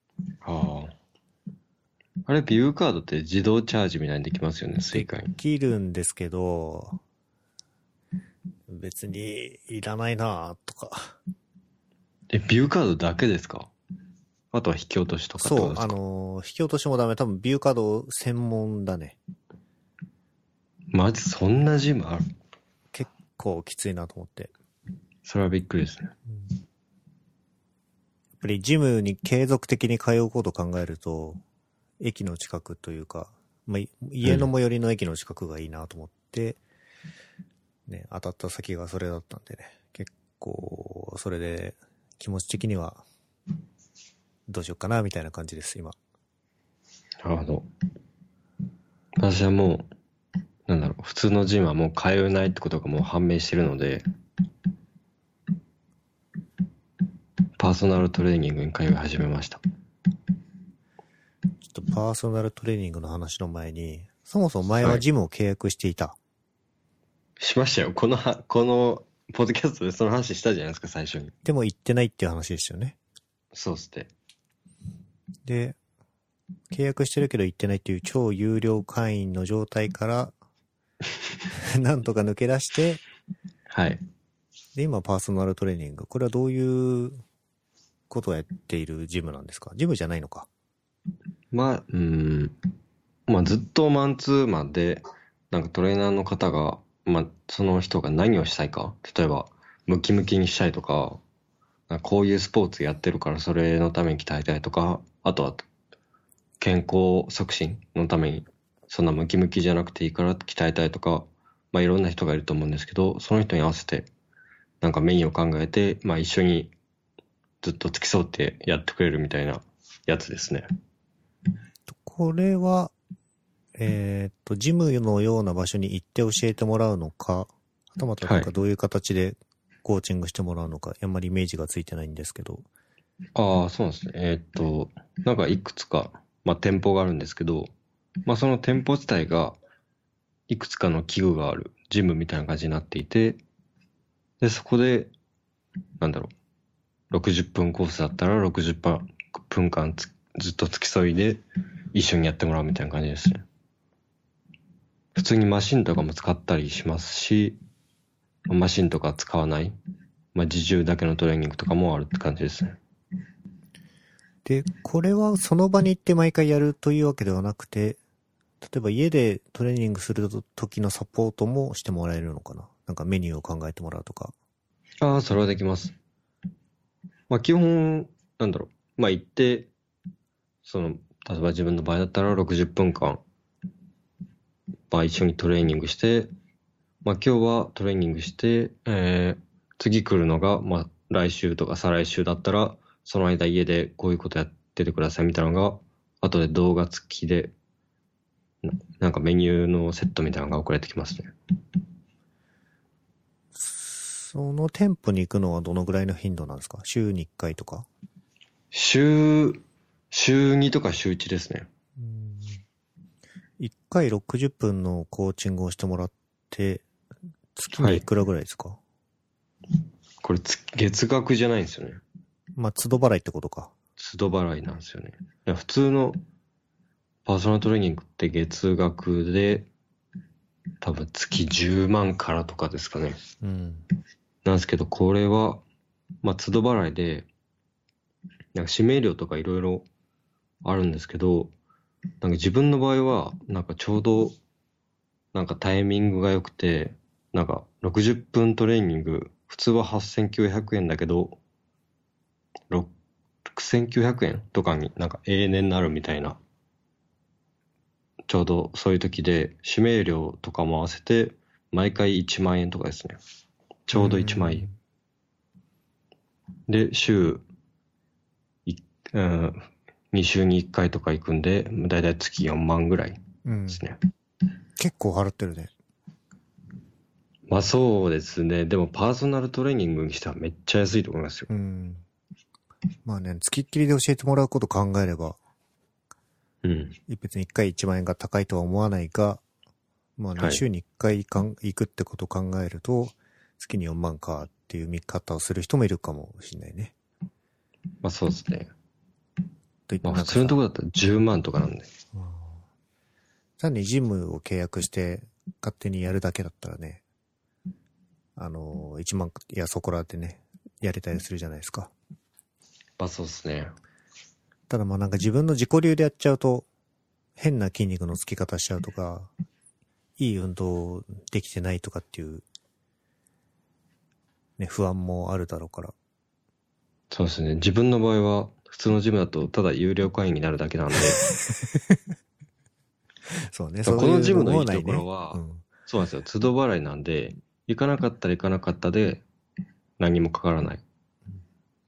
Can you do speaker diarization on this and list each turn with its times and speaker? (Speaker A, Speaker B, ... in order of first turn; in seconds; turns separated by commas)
Speaker A: 0.4-0.9, Speaker A: 2.3-5.4, Speaker B: 4.9-7.0, Speaker B: 8.7-11.2, Speaker A: 12.3-13.7, Speaker A: 14.5-16.0, Speaker B: 15.4-19.2, Speaker A: 20.9-22.3, Speaker B: 22.9-24.5, Speaker A: 25.2-26.1, Speaker B: 28.4-31.4, Speaker B: 32.0-36.6, Speaker B: 37.9-43.0, Speaker B: 44.5-46.0, Speaker A: 47.2-47.7, Speaker A: 49.2-49.9, Speaker A: 50.7-54.0, Speaker A: 57.6-59.6, Speaker B: 61.7-66.2, Speaker A: 64.8-65.0, Speaker A: 67.4-71.3, Speaker B: 71.5-73.0, Speaker A: 73.5-74.1, Speaker B: 75.5-75.8, Speaker B: 76.7-80.3, Speaker B: 81.5-83.0, Speaker A: 83.7-84.0, Speaker B: 84.8-87.2, Speaker B: 88.1-90.5, Speaker A: 91.5-92.6, Speaker A: 93.3-101.2, Speaker A: 101.9-105.7, Speaker A: 106.6-114.1, Speaker A: 114.8-116.7, Speaker A: 117.6-120.7, Speaker B: 121.9-122.9, Speaker B: 123.8-132.7, Speaker A: 128.2-128.5, Speaker A: 133.4-137.7, Speaker A: 138.3-139.6, Speaker A: 140.5-143.4, Speaker A: 144.4-145.1, Speaker A: 146.0-146.3, Speaker A: 147.1-153.4, Speaker A: 155.2-157.6, Speaker A: 158.5-159.8, Speaker A: 160.3-162.8, Speaker B: 164.4-168.0, Speaker B: 168.6-174.3, Speaker A: 175.0-175.9, Speaker A: 177.3-179.7, Speaker A: 180.7-183.2, Speaker A: 184.9-186.3, Speaker A: 187.0-197.5, Speaker A: 198.6-201.3, Speaker B: 203.5-207.9, Speaker A: 208.7-211.7, Speaker B: 212.0-212.6, Speaker B: 213.6-216.8, Speaker B: 217.6-218.8, Speaker A: 217.8-218.1, Speaker A: 220.2-222.0, Speaker B: 222.6-223.7, Speaker A: 224.0-226.2, Speaker A: 227.2-229.7, Speaker A: 230.8-233.2, Speaker B: 233.4-233.8, Speaker A: 234.4-235.6, Speaker A: 236.2-237.3, Speaker A: 238.5-239.9, Speaker A: 240.6-241.5, Speaker A: 242.2-244.4, Speaker A: 245.3-251.4, Speaker A: 253.5-256.4, Speaker A: 258.3-263.2, Speaker A: 263.9-264.7, Speaker B: 263.9-264.7, Speaker A: 266.7-267.4, Speaker A: 268.7-274.0, Speaker B: 273.4-273.8, Speaker B: 274.8-275.7, Speaker A: 277.5-281.5, Speaker B: 281.5-282.0, Speaker B: 283.1-285.4, Speaker A: 286.6-287.0, Speaker B: 287.1-289.4, Speaker B: 290.2-296.9, Speaker A: 290.4-290.6, Speaker A: 298.0-298.7, Speaker B: 299.9-300.6, Speaker A: 300.0-301.9, Speaker B: 302.1-302.6, Speaker B: 303.6-307.0, Speaker B: 308.4-311.9, Speaker A: 313.0-313.7, Speaker B: 314.7-316.7, Speaker B: 317.4-319.3, Speaker B: 320.2-322.4, Speaker B: 324.6-325.9, Speaker A: 327.1-331.2, Speaker B: 331.2-332.0, Speaker B: 333.3-335.7, Speaker A: 333.9-339.2, Speaker A: 340.0-340.8